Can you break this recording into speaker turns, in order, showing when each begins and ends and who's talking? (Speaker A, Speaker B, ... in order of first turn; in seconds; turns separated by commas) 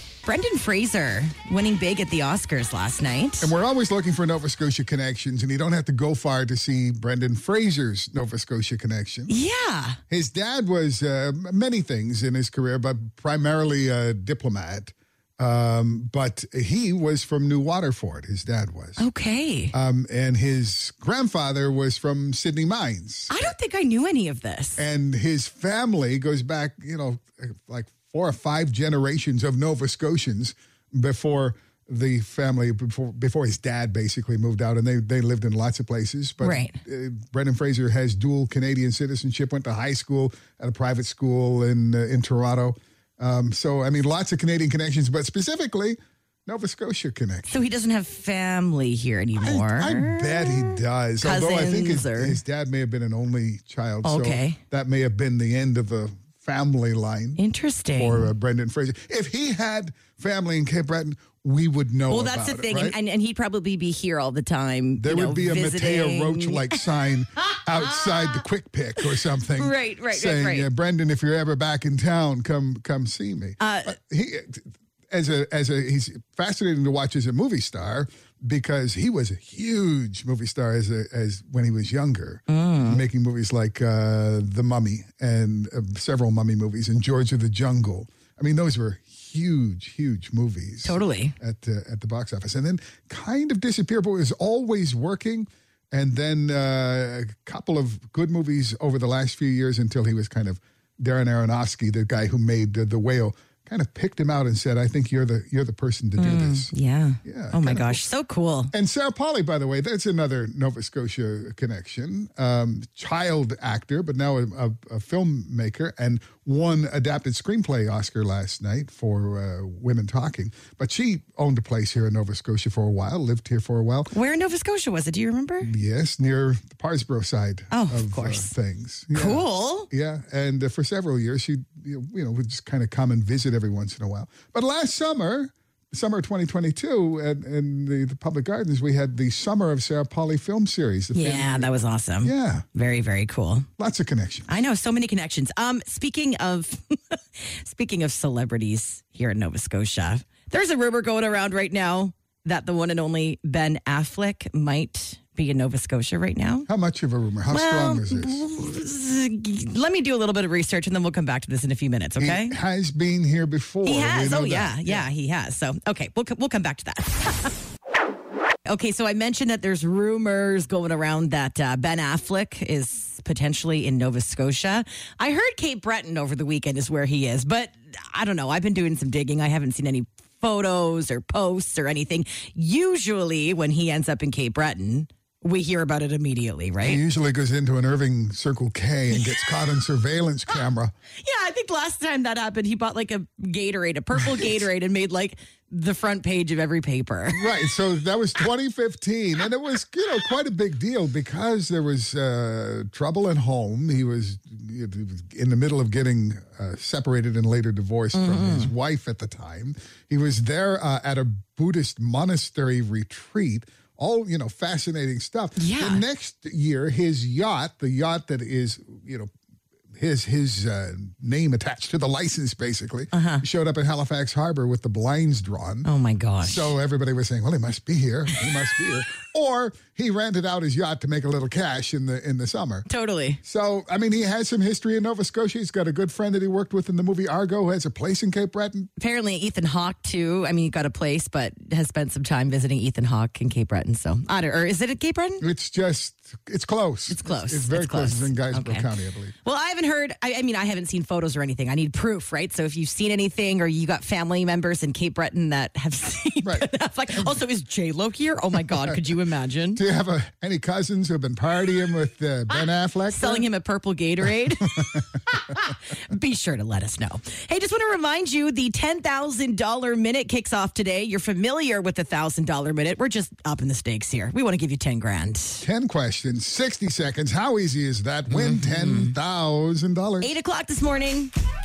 Speaker A: 0.2-3.5, Speaker B: 3.4-9.3, Speaker A: 9.3-10.0, Speaker B: 10.1-19.0, Speaker A: 19.0-19.7, Speaker B: 19.7-23.5, Speaker A: 23.3-24.8, Speaker B: 24.8-47.6, Speaker A: 36.4-36.8, Speaker A: 47.5-52.4, Speaker B: 49.4-57.4, Speaker A: 54.0-54.6, Speaker A: 57.4-58.3, Speaker B: 58.0-63.0, Speaker A: 62.1-66.8, Speaker B: 65.0-106.7, Speaker A: 67.4-68.4, Speaker A: 69.5-70.7, Speaker A: 73.6-74.0, Speaker A: 82.5-83.0, Speaker A: 90.8-91.3, Speaker A: 106.2-108.7, Speaker B: 107.2-108.0, Speaker B: 108.7-124.1, Speaker A: 124.1-125.7, Speaker B: 125.6-142.6, Speaker A: 127.7-128.5, Speaker A: 129.1-129.9, Speaker A: 141.1-143.7, Speaker B: 143.8-144.5, Speaker A: 144.5-156.7, Speaker B: 156.7-158.4, Speaker A: 157.5-162.6, Speaker B: 162.2-165.1, Speaker A: 163.8-167.5, Speaker A: 168.7-187.0, Speaker B: 186.8-190.9, Speaker A: 191.2-197.5, Speaker B: 194.2-194.6, Speaker B: 197.3-219.3, Speaker A: 208.1-208.7, Speaker A: 215.6-216.0, Speaker B: 219.9-225.9, Speaker A: 223.1-223.4, Speaker A: 225.8-226.8, Speaker B: 226.4-232.8, Speaker A: 232.9-233.4, Speaker B: 233.4-238.9, Speaker A: 239.0-245.4, Speaker B: 245.4-249.3, Speaker A: 247.1-248.9, Speaker A: 249.4-259.8, Speaker B: 256.4-257.3, Speaker B: 259.8-263.5, Speaker A: 263.1-275.6, Speaker B: 264.7-265.0, Speaker B: 275.6-280.4, Speaker A: 278.3-279.1, Speaker A: 280.2-281.3